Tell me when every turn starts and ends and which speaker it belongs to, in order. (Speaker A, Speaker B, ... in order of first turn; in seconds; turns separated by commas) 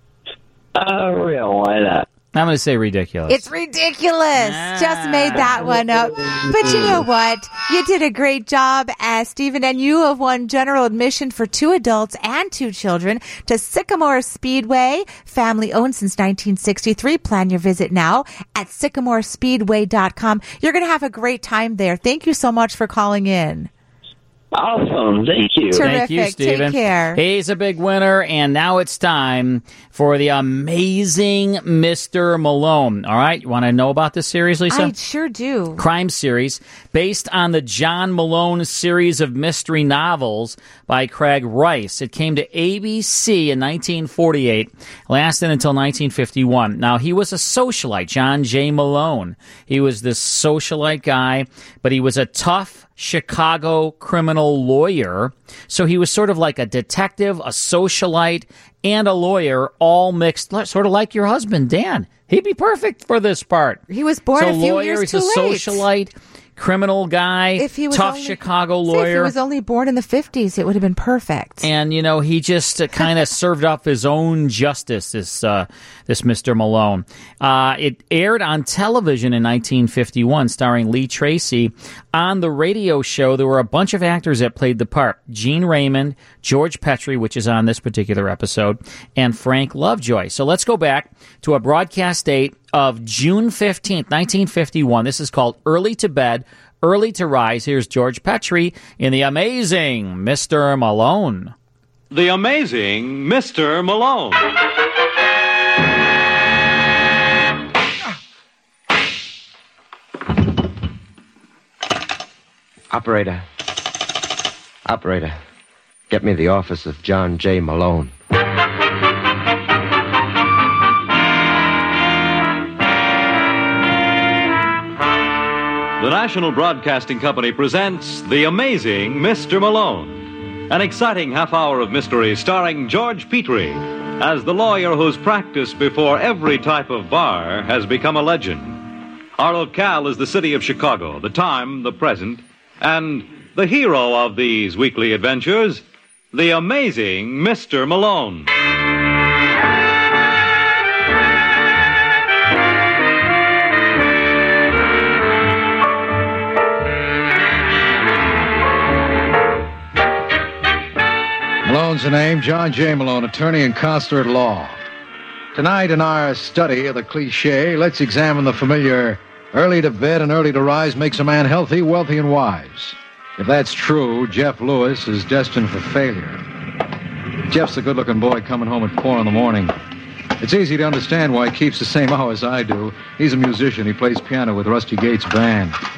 Speaker A: 0.8-2.1, Speaker B: 2.3-3.5, Speaker C: 3.3-23.7, Speaker B: 4.4-5.6, Speaker A: 5.5-7.0, Speaker A: 24.5-25.9, Speaker C: 25.7-27.2, Speaker B: 25.8-34.9, Speaker C: 34.7-35.8, Speaker B: 35.8-63.8, Speaker C: 63.9-65.9, Speaker B: 64.3-69.3, Speaker C: 67.6-71.7, Speaker B: 71.6-101.5, Speaker D: 102.1-104.4, Speaker E: 112.9-113.4, Speaker E: 114.9-115.3, Speaker E: 116.1-118.1, Speaker D: 126.0-138.9, Speaker D: 139.4-148.5, Speaker F: 161.6-164.8, Speaker F: 165.6-176.4, Speaker F: 177.5-179.7, Speaker F: 180.4-185.8